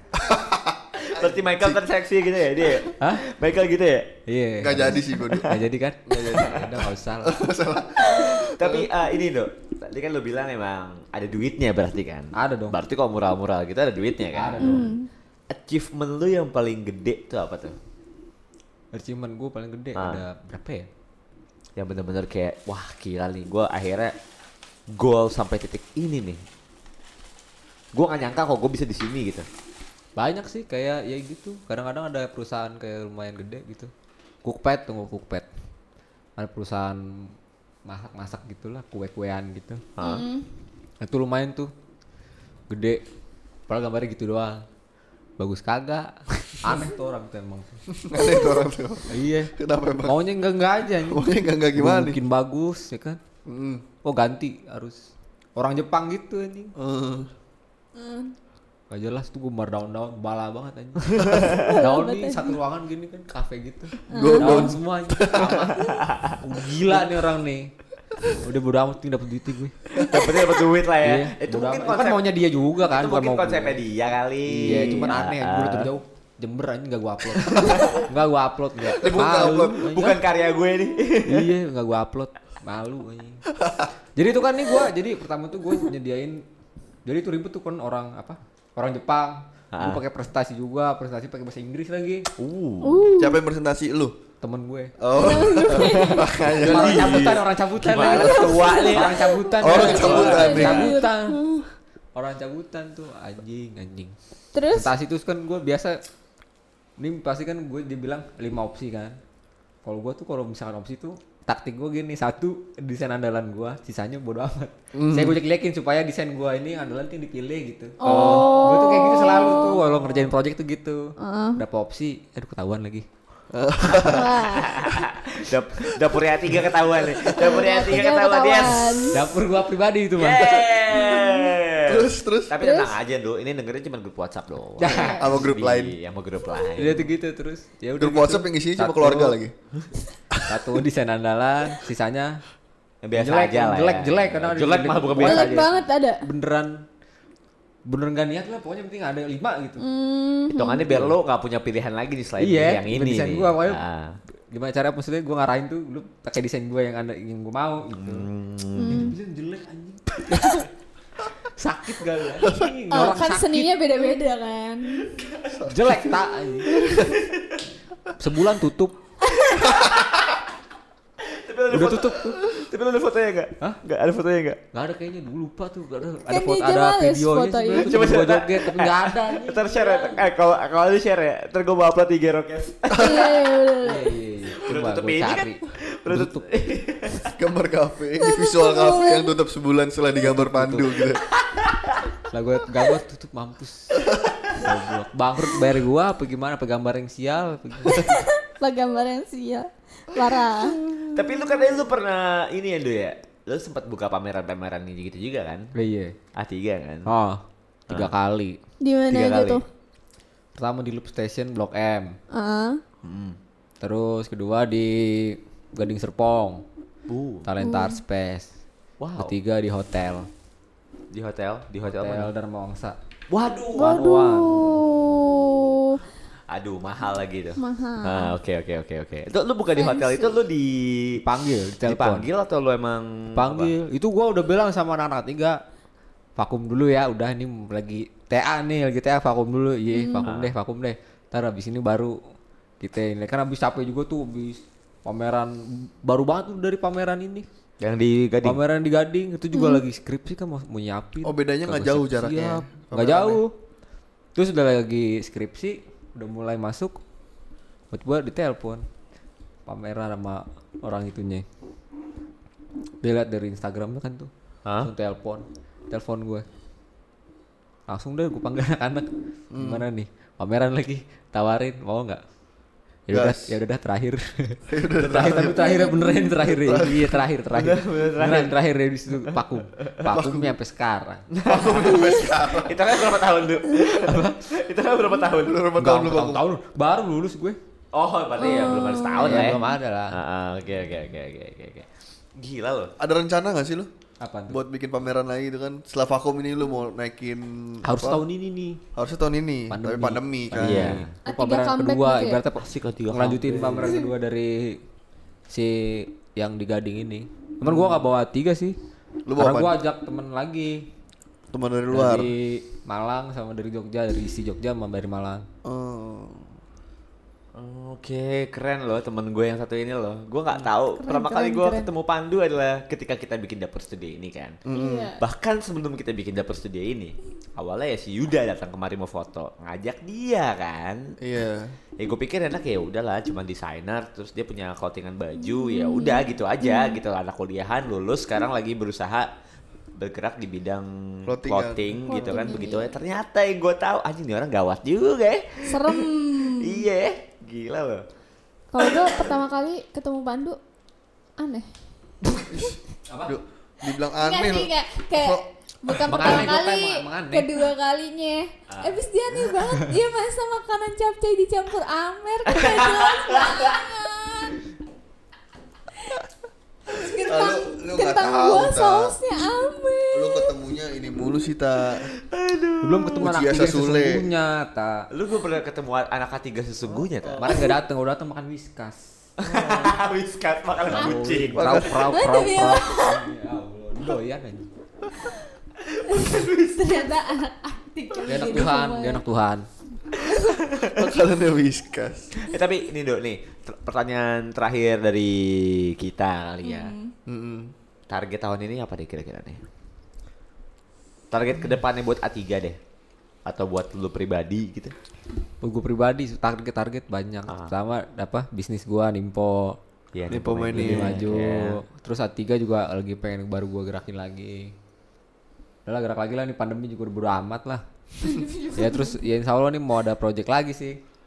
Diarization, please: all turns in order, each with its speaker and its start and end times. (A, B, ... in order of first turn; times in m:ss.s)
0:00.2-0:01.8 A
0:01.0-0:04.1 B
0:04.3-0:07.4 C
0:04.6-0:05.5 A
0:05.2-0:05.5 B
0:06.1-0:06.7 A
0:07.2-0:08.9 A
0:08.1-0:14.9 B
0:12.4-0:12.8 C
0:14.4-0:14.9 C
0:14.6-0:15.1 D
0:15.5-0:17.8 B
0:18.9-0:20.9 C
0:20.0-0:20.2 B
0:21.8-0:24.1 B
0:24.9-0:26.4 B
0:27.9-0:29.5 B
0:30.2-0:33.9 C
0:34.4-0:35.5 C
0:36.4-0:37.3 C
0:37.9-0:39.8 C
0:40.0-0:40.3 B
0:40.0-0:40.5 D
0:41.0-0:41.7 C
0:42.7-0:43.0 C
0:43.7-0:44.6 C
0:45.4-0:47.8 C
0:48.0-0:50.2 A
0:48.2-0:48.6 D
0:49.1-0:49.5 C
0:50.0-0:53.2 C
0:51.1-0:52.2 A
0:53.5-0:53.8 A
0:54.0-0:55.0 C
0:55.6-0:56.7 C
0:56.8-0:57.3 A
0:58.0-0:58.4 D
0:58.9-1:07.7 C
1:01.4-1:02.6 D
1:04.1-1:05.6 A
1:04.1-1:04.8 D
1:05.8-1:06.4 B
1:08.3-1:09.9 C
1:10.0-1:12.3 B
1:11.0-1:13.8 C
1:12.8-1:15.9 B
1:14.5-1:20.2 C
1:17.5-1:18.0 B
1:18.9-1:19.7 A
1:19.0-1:21.5 B
1:21.2-1:23.4 C
1:23.6-1:23.9 A
1:24.2-1:26.4 C
1:27.1-1:32.3 C
1:29.7-1:30.0 B
1:32.4-1:33.1 B
1:32.8-1:33.4 D
1:33.2-1:34.2 A
1:34.4-1:34.9 C
1:35.0-1:37.4 A
1:35.1-1:36.3 D
1:35.7-1:40.8 B
1:36.6-1:41.4 C
1:38.0-1:41.1 D
1:39.6-1:41.7 A
1:42.2-1:44.2 C
1:44.5-1:44.9 D
1:44.7-1:46.0 C
1:47.0-1:49.2 C
1:49.8-2:03.1 C
1:54.9-1:55.4 A
1:58.0-1:59.8 D
1:58.0-1:58.6 B
2:01.2-2:01.6 D
2:03.5-2:04.5 A
2:03.9-2:04.9 D
2:04.4-2:09.2 B
2:07.0-2:07.8 A
2:07.3-2:09.2 D
2:09.1-2:10.5 C
2:10.2-2:17.1 B
2:10.5-2:11.3 A
2:11.0-2:11.4 D
2:11.8-2:12.5 A
2:12.6-2:13.0 D
2:14.8-2:15.2 C
2:14.8-2:15.2 D
2:15.2-2:16.0 A
2:16.8-2:19.4 C
2:18.0-2:19.5 A
2:20.5-2:22.4 C
2:23.0-2:25.8 B
2:23.2-2:26.8 C
2:25.2-2:26.2 D
2:27.9-2:29.8 C
2:29.8-2:31.0 D
2:30.5-2:34.2 B
2:30.9-2:31.2 C
2:32.4-2:33.8 C
2:34.5-2:38.3 C
2:37.9-2:39.2 B
2:38.8-2:39.1 D
2:38.9-2:40.7 C
2:41.4-2:43.8 C
2:42.9-2:45.1 D
2:45.2-2:45.6 B
2:45.5-2:45.8 A
2:45.6-2:46.8 C
2:46.7-2:47.1 A
2:46.8-2:47.6 B
2:48.2-2:49.0 C
2:49.3-2:49.8 D
2:51.2-2:54.6 B
2:51.7-2:52.4 C
2:54.7-3:00.2 C
2:56.3-2:57.9 D
2:57.7-3:03.3 B
3:02.9-3:03.3 A
3:02.9-3:04.2 D
3:03.8-3:06.5 C
3:04.6-3:07.3 B
3:07.3-3:11.2 A
3:08.2-3:09.4 D
3:10.2-3:11.0 C
3:11.5-3:11.8 B
3:12.3-3:14.0 C
3:14.6-3:18.2 C
3:17.9-3:20.8 D
3:21.1-3:25.7 B
3:25.8-3:26.2 C
3:26.4-3:27.1 B
3:27.1-3:28.6 C
3:28.8-3:29.6 D
3:29.1-3:29.6 B
3:30.6-3:32.2 C
3:32.3-3:32.8 D
3:33.0-3:33.4 B
3:33.8-3:36.6 C
3:37.1-3:37.5 B
3:37.4-3:38.5 C
3:37.6-3:38.0 D
3:39.0-3:39.3 B
3:39.2-3:40.3 C
3:41.1-3:42.3 B
3:41.8-3:43.0 C
3:43.3-3:44.2 B
3:43.8-3:46.0 D
3:43.8-3:44.9 C
3:44.9-3:45.6 B
3:46.5-3:51.2 B
3:47.6-3:48.4 D
3:49.7-3:50.4 D
3:51.2-3:52.3 C
3:51.8-3:53.7 B
3:53.4-3:55.6 C
3:56.4-4:02.2 C
3:59.9-4:00.3 D
4:00.2-4:00.5 B
4:02.8-4:07.5 C
4:07.8-4:08.6 B
4:08.4-4:13.6 C
4:09.5-4:09.8 D
4:11.2-4:13.4 A
4:14.4-4:17.0 C
4:17.9-4:18.8 C
4:19.7-4:21.4 C
4:23.0-4:24.3 C
4:24.8-4:26.4 C
4:27.9-4:32.2 C
4:29.5-4:29.9 A
4:33.1-4:41.3 C
4:33.1-4:33.6 A
4:34.7-4:35.8 A
4:35.5-4:36.3 D
4:36.4-4:37.2 A
4:37.5-4:38.5 B
4:39.1-4:40.0 B
4:40.1-4:40.6 A
4:41.3-4:45.7 B
4:41.5-4:42.8 A
4:42.0-4:42.2 D
4:43.9-4:44.4 C
4:45.4-4:46.4 A
4:45.8-4:47.6 C
4:47.9-4:52.9 B
4:48.4-4:49.8 D
4:49.1-4:50.2 C
4:53.0-4:53.9 A
4:54.2-4:54.6 C
4:54.5-4:58.2 A
4:57.8-4:58.8 C
4:59.0-5:01.0 A
4:59.7-5:04.8 C
5:00.6-5:01.1 B
5:01.2-5:02.4 D
5:02.6-5:04.0 B
5:05.5-5:08.8 C
5:07.6-5:08.0 A
5:09.3-5:09.8 A
5:09.4-5:10.8 C
5:11.5-5:12.3 A
5:11.9-5:15.5 C
5:15.6-5:16.5 A
5:17.6-5:24.6 B
5:21.0-5:21.9 D
5:24.7-5:25.1 A
5:24.7-5:25.2 D
5:25.2-5:31.2 B
5:31.2-5:31.8 A
5:32.0-5:39.3 B
5:35.4-5:37.0 D
5:40.0-5:48.0 B
5:41.3-5:42.7 A
5:42.1-5:42.9 D
5:45.7-5:46.8 D
5:48.7-5:50.6 D
5:48.8-5:49.3 B
5:51.4-5:51.7 D
5:52.5-5:55.4 A
5:53.1-5:53.4 C
5:54.0-6:04.6 D
5:56.0-5:57.6 C
5:58.7-5:59.0 B
6:02.5-6:03.8 B
6:06.9-6:10.6 D
6:07.0-6:09.1 A
6:10.1-6:12.1 A
6:12.2-6:13.3 B
6:12.8-6:15.1 C
6:13.2-6:14.2 A
6:15.1-6:17.7 B
6:17.0-6:17.6 A
6:17.4-6:19.0 C
6:19.4-6:21.9 B
6:19.5-6:19.9 A
6:20.9-6:24.7 C
6:21.5-6:22.0 A
6:22.1-6:23.2 D
6:25.8-6:27.0 B
6:26.1-6:29.2 D
6:28.3-6:29.7 C
6:30.7-6:31.0 B
6:30.9-6:32.3 A
6:32.4-6:36.9 B
6:36.6-6:37.1 D
6:37.3-6:37.7 A
6:38.1-6:39.6 B
6:41.3-6:42.8 B
6:43.4-6:44.9 B
6:45.6-6:49.8 C
6:50.1-6:51.8 B
6:50.3-6:51.2 A
6:50.7-6:54.7 C
6:55.9-6:57.8 C
6:58.2-6:59.2 D
6:58.7-7:01.0 C